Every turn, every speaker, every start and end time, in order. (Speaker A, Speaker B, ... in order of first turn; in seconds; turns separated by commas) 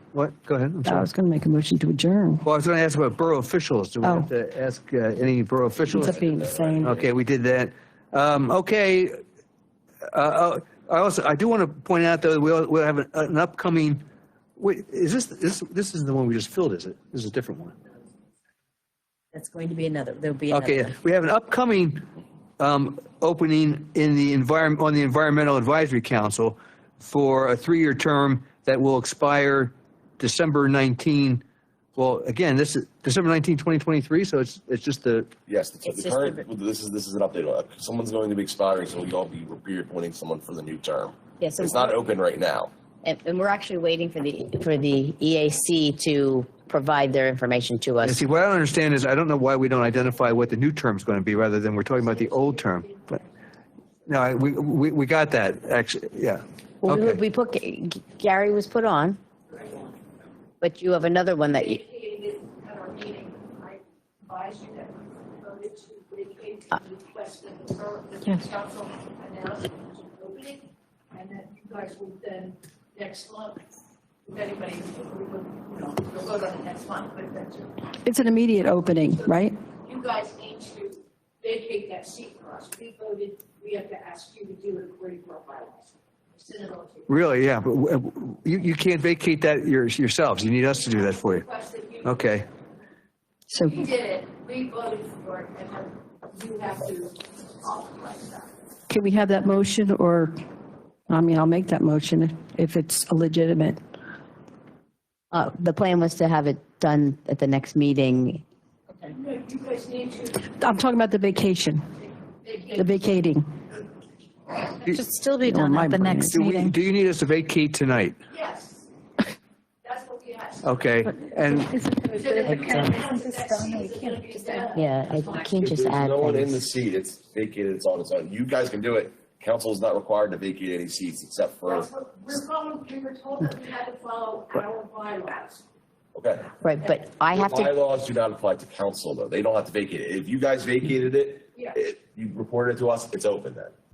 Speaker A: 0.1-1.1, Speaker B: 0.8-2.5, Speaker A: 2.5-6.2, Speaker B: 4.0-4.3, Speaker B: 5.9-7.0, Speaker C: 6.2-7.0, Speaker A: 6.8-9.2, Speaker A: 10.1-14.0, Speaker A: 14.6-17.8, Speaker D: 19.3-20.9, Speaker A: 20.5-22.1, Speaker A: 22.6-31.4, Speaker A: 32.0-35.3, Speaker C: 35.5-42.7, Speaker D: 35.8-36.5, Speaker D: 41.4-42.0, Speaker D: 43.0-48.2, Speaker A: 48.0-53.0, Speaker E: 52.1-53.2, Speaker A: 54.1-57.2, Speaker D: 56.8-59.2, Speaker D: 60.6-61.8, Speaker E: 61.5-73.7, Speaker E: 74.3-77.8, Speaker B: 78.0-79.6, Speaker E: 79.8-87.1, Speaker A: 87.1-91.5, Speaker E: 91.2-92.4, Speaker A: 92.0-92.5, Speaker B: 93.5-93.8, Speaker E: 93.6-98.5, Speaker B: 98.9-100.3, Speaker B: 101.1-103.8, Speaker D: 105.3-108.4, Speaker E: 109.1-110.6, Speaker B: 110.6-111.8, Speaker E: 112.4-112.9, Speaker B: 112.8-113.5, Speaker F: 115.2-116.7, Speaker B: 115.4-116.7, Speaker A: 116.3-118.2, Speaker E: 118.3-118.9, Speaker E: 119.8-120.7, Speaker A: 120.6-121.7, Speaker F: 121.5-124.6, Speaker E: 122.1-125.6, Speaker D: 124.7-126.6, Speaker C: 125.6-131.9, Speaker E: 131.7-135.6, Speaker C: 136.2-136.5, Speaker D: 136.6-137.7, Speaker C: 137.3-143.7